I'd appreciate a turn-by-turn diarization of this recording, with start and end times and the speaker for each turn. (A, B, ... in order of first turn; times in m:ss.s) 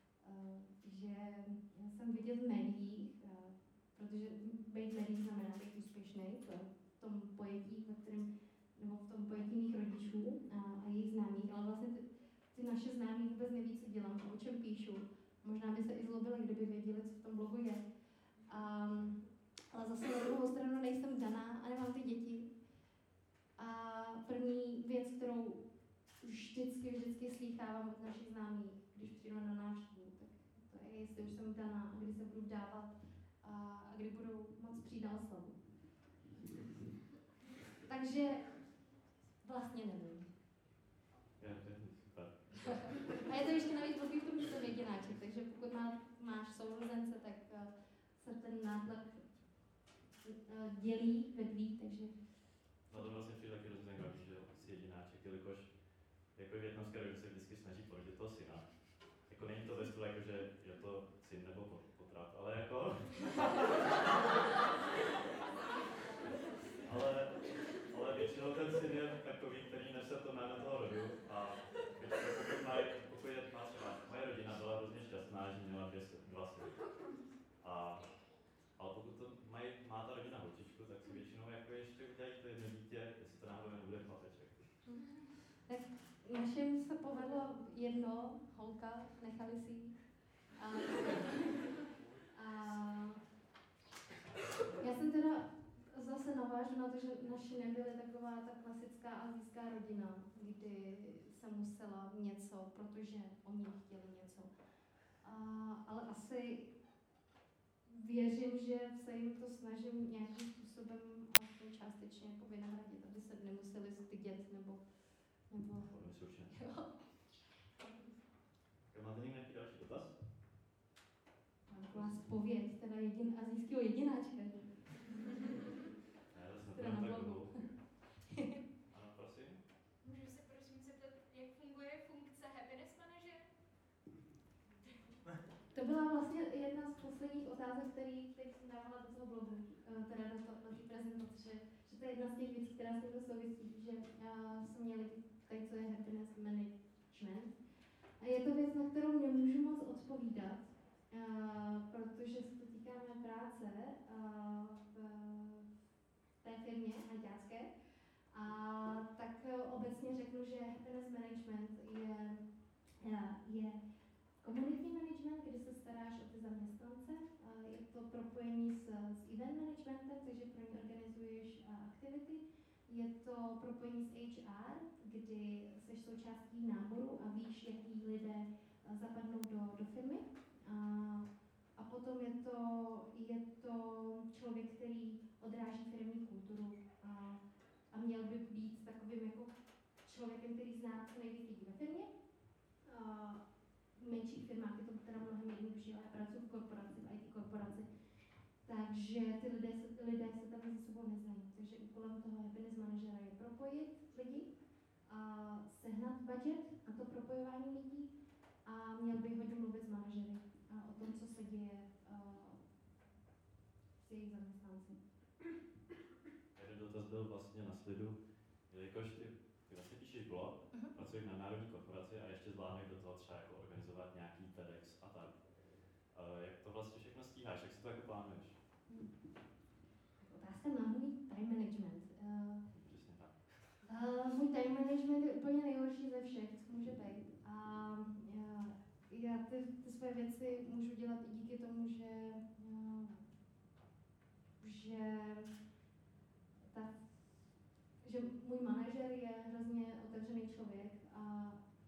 0:00.2-0:17.8 A
0:18.4-0:22.5 A
0:23.6-0:25.6 A
0:26.2-0:35.6 A
0:37.8-0:38.8 A
0:39.4-0:40.3 A
0:41.4-0:43.3 B
0:43.0-0:49.3 A
0:50.2-0:52.2 A
0:52.9-1:04.1 B
1:06.8-1:17.1 B
1:17.6-1:24.7 B
1:24.8-1:33.2 A
1:34.8-1:44.5 A
1:45.2-1:46.8 A
1:47.9-1:54.8 A
1:55.5-1:57.2 A
1:55.8-1:56.6 B
1:58.9-2:00.2 B
2:01.7-2:05.5 A
2:01.9-2:02.3 B
2:06.3-2:07.8 B
2:06.7-2:08.6 A
2:08.9-2:09.6 B
2:10.0-2:13.5 C
2:14.9-2:15.2 C
2:15.7-2:27.5 A
2:28.2-2:35.7 A
2:36.4-2:37.7 A
2:38.3-2:42.4 A
2:43.0-2:43.8 A
2:44.4-3:09.5 A
3:10.0-3:12.1 A
3:12.8-3:13.4 A
3:14.0-3:17.9 A
3:18.7-3:24.5 A
3:25.1-3:28.1 A
3:28.6-3:32.6 A
3:34.0-3:35.0 A
3:36.6-3:38.2 B
3:38.7-3:45.5 B
3:46.0-3:48.6 B
3:48.9-3:49.1 A
3:50.2-3:52.6 A
3:52.7-3:53.8 B
3:53.9-4:03.3 A
4:04.6-4:05.5 A
4:06.7-4:07.1 A
4:08.0-4:11.6 A